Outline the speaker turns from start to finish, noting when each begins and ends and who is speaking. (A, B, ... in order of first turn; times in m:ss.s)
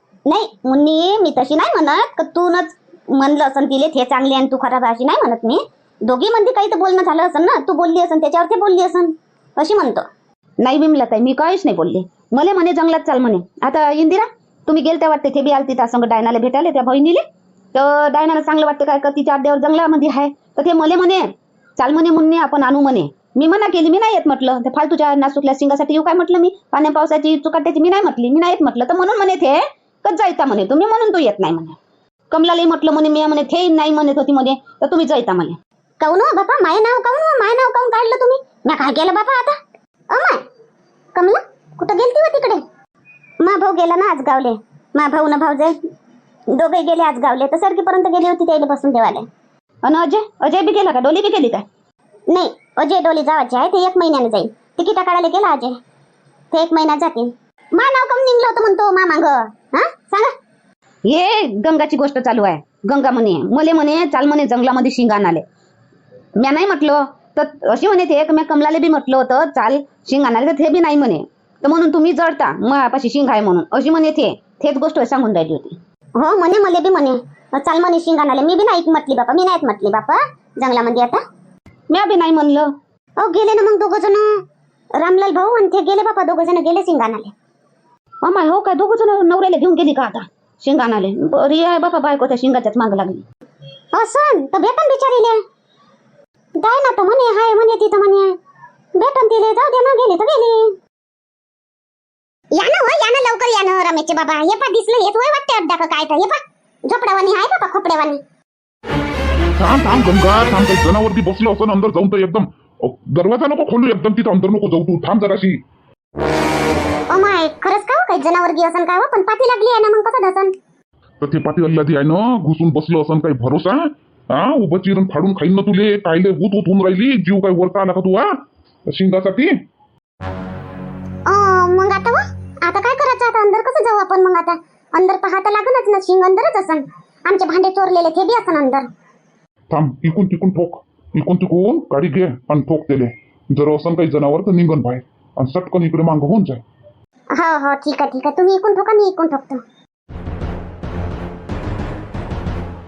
0:00.3-0:10.0 A
0:10.6-0:31.8 B
0:32.3-0:35.6 B
0:36.0-0:39.6 A
0:40.1-0:40.4 A
0:41.1-0:42.6 A
0:43.4-0:45.8 A
0:46.5-0:49.2 A
0:49.8-0:51.6 B
0:52.3-0:55.8 A
0:56.5-1:00.3 A
1:01.1-1:05.4 B
1:06.4-1:15.8 B
1:16.2-1:21.2 A
1:21.9-1:22.7 B
1:23.2-1:24.4 A
1:25.0-1:27.3 A
1:28.2-1:33.2 B
1:33.9-1:35.4 A
1:36.6-1:38.4 A
1:39.0-1:40.7 A
1:42.5-1:48.2 A
1:49.6-1:55.6 C
1:57.1-2:00.5 A
2:01.2-2:08.3 C
2:08.9-2:09.6 C
2:11.3-2:18.9 A
2:19.7-2:26.6 C
2:27.3-2:29.6 A